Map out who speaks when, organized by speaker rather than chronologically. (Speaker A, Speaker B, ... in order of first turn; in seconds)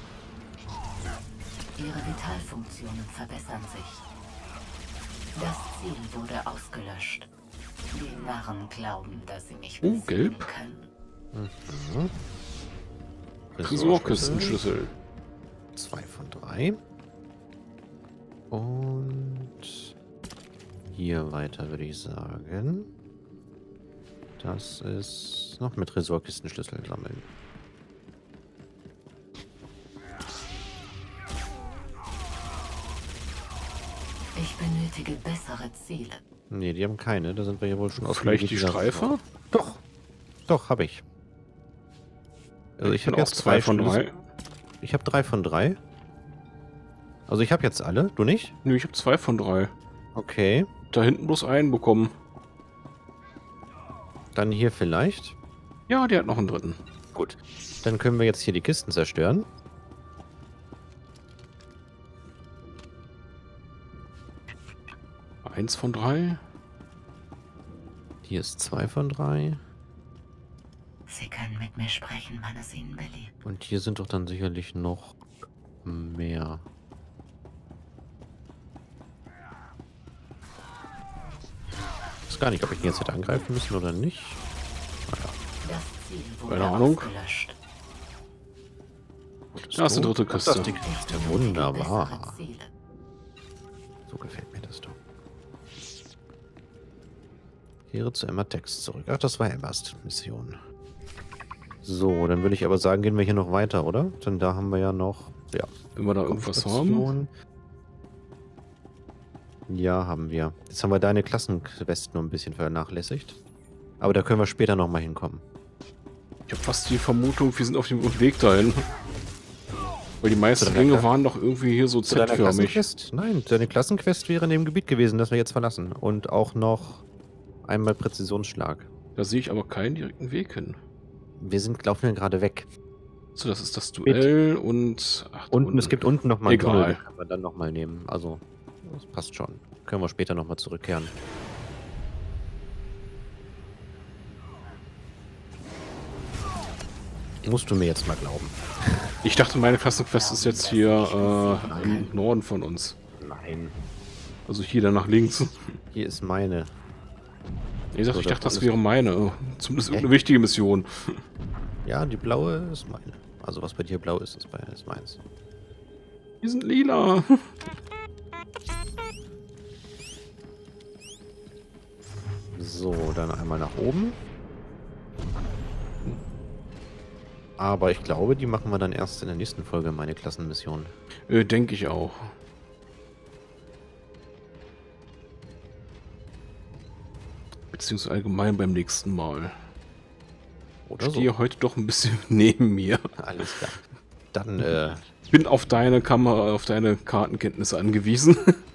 Speaker A: 1.8-4.0, 5.3-7.3, 7.9-10.9, 34.4-36.2, 71.1-73.3, 85.7-87.5, 90.8-92.7
Speaker B: 9.8-10.5, 13.6-14.9, 38.0-39.2, 42.8-44.2, 48.6-49.7, 50.9-52.1, 55.9-56.8, 65.4-66.4, 86.5-87.1, 89.7-90.7, 106.0-107.1, 116.5-118.8, 120.2-122.8, 129.2-130.8, 133.3-137.0, 149.2-153.0, 154.5-155.8, 157.9-161.2, 166.4-167.5, 181.3-182.3, 187.7-189.6, 191.0-193.0, 195.2-198.6
Speaker C: 11.3-12.2, 13.5-14.6, 15.8-16.8, 18.5-19.9, 20.9-22.9, 24.4-27.2, 36.5-39.8, 40.5-41.0, 42.8-44.0, 44.8-45.8, 47.3-48.6, 50.1-50.7, 54.4-55.4, 57.1-59.5, 68.2-69.6, 73.4-75.2, 75.8-76.7, 82.3-84.4, 85.1-85.4, 89.5-92.4, 94.1-95.0, 97.9-100.6, 101.8-105.7, 106.3-107.3, 109.7-113.4, 114.0-115.5, 120.6-121.1, 122.1-127.0, 127.7-128.9, 131.4-132.7, 135.5-141.1, 147.4-149.1, 151.5-152.1, 153.2-153.8, 155.9-156.7, 158.1-158.7, 161.8-165.2, 172.6-174.2, 177.6-180.9, 190.9-191.3, 193.2-193.8, 194.3-195.0